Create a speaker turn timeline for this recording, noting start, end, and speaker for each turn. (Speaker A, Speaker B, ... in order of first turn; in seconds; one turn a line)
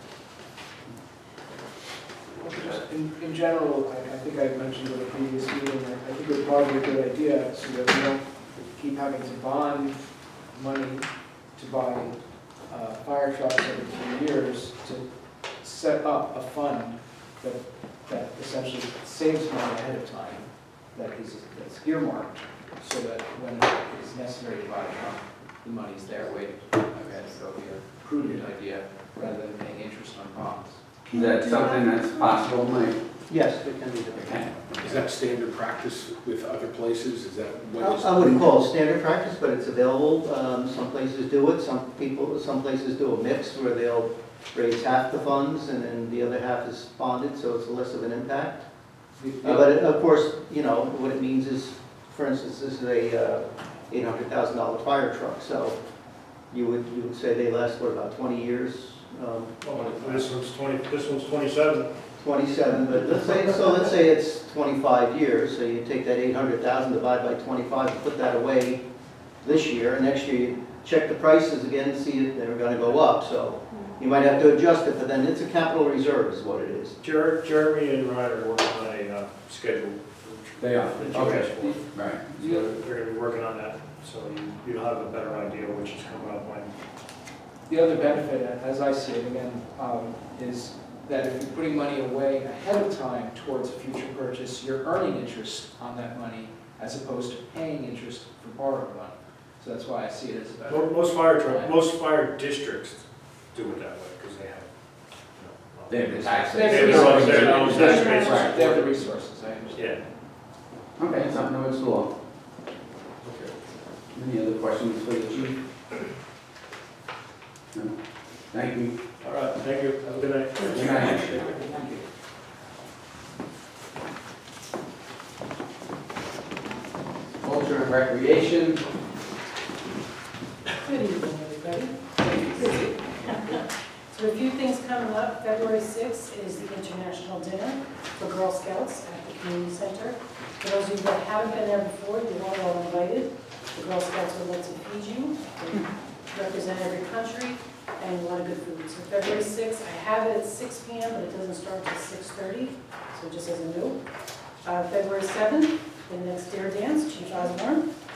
Speaker A: 2.4-12.2
Speaker A: 12.7-15.0
Speaker A: 15.6-30.8
Speaker B: 31.1-33.0
Speaker C: 33.3-34.6
Speaker B: 34.1-34.5
Speaker D: 34.8-38.6
Speaker C: 37.8-48.6
Speaker A: 49.2-49.6
Speaker C: 49.4-55.8
Speaker C: 56.5-60.2
Speaker E: 59.6-61.9
Speaker C: 62.2-68.8
Speaker C: 69.4-77.0
Speaker E: 77.0-81.8
Speaker B: 80.6-82.4
Speaker A: 81.1-81.8
Speaker A: 82.3-82.7
Speaker E: 82.4-86.7
Speaker A: 87.7-101.8
Speaker E: 100.7-103.0
Speaker E: 103.5-104.7
Speaker E: 105.4-109.0
Speaker B: 105.9-108.6
Speaker A: 106.2-110.0
Speaker F: 107.8-108.2
Speaker E: 109.7-110.0
Speaker B: 111.0-112.1
Speaker E: 113.2-113.5
Speaker B: 114.1-115.6
Speaker B: 118.5-119.0
Speaker E: 119.2-122.0
Speaker B: 120.7-121.5
Speaker A: 120.9-122.0
Speaker B: 127.4-128.8
Speaker F: 130.8-154.0
Speaker F: 154.6-157.9